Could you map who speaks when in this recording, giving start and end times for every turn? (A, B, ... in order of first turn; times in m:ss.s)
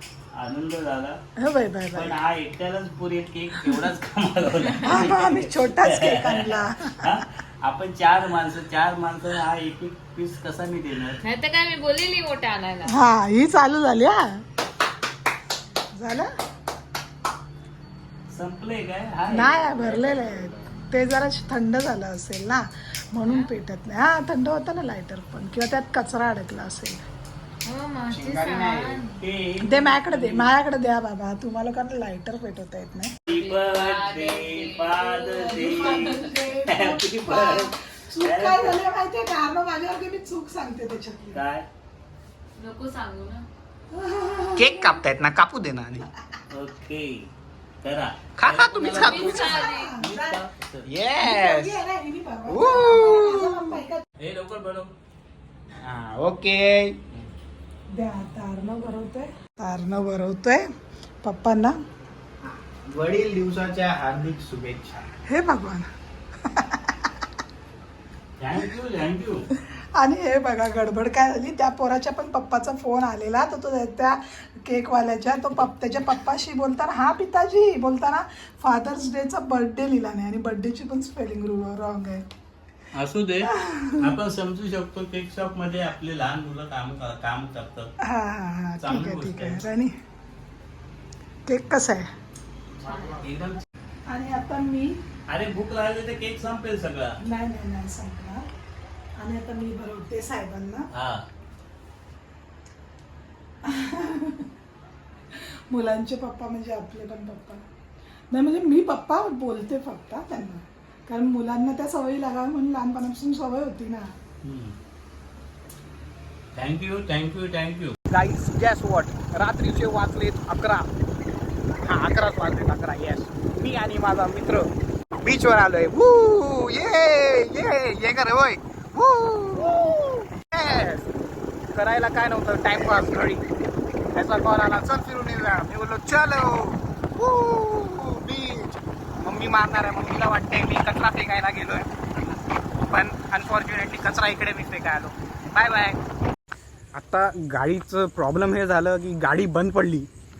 0:00.3-0:01.2 A
0:01.4-0:02.2 B
0:01.9-0:11.2 A
0:04.8-0:07.1 B
0:11.2-0:12.9 C
0:12.8-0:14.4 B
0:15.9-0:16.3 B
0:18.3-0:20.7 A
0:19.3-0:27.0 B
0:23.2-0:23.5 C
0:27.6-0:29.1 C
0:28.1-0:28.8 D
0:28.5-0:30.5 A
0:29.6-0:33.1 B
0:33.3-0:38.8 A
0:33.3-0:36.4 C
0:35.4-0:41.4 B
0:41.3-0:41.6 A
0:42.6-0:43.4 C
0:43.9-0:45.0 B
0:44.6-0:46.0 D
0:46.5-0:47.3 A
0:47.8-0:50.9 A
0:48.4-0:49.7 D
0:48.8-0:49.9 C
0:48.9-0:50.4 B
0:50.8-0:51.8 D
0:51.2-0:54.0 B
0:52.5-0:53.8 D
0:54.2-0:54.9 A
0:55.8-0:57.0 D
0:57.9-1:00.7 B
1:01.2-1:01.8 B
1:02.8-1:05.0 D
1:05.2-1:05.8 B
1:06.4-1:07.0 B
1:08.4-1:09.5 A
1:09.8-1:22.2 B
1:22.9-1:27.9 A
1:23.5-1:24.1 B
1:28.0-1:29.9 B
1:28.8-1:29.6 A
1:31.5-1:32.1 B
1:32.8-1:33.6 A
1:34.1-1:35.0 B
1:35.3-1:37.2 A
1:37.2-1:38.4 B
1:39.2-1:40.9 B
1:40.9-1:41.2 A
1:43.6-1:44.5 B
1:45.3-1:47.6 B
1:48.3-1:54.1 B
1:54.4-1:54.8 A
1:56.5-1:58.0 A
1:58.1-2:00.9 D
2:01.8-2:11.1 D
2:11.7-2:13.4 D
2:14.1-2:21.9 D
2:22.8-2:26.0 D
2:26.9-2:30.1 D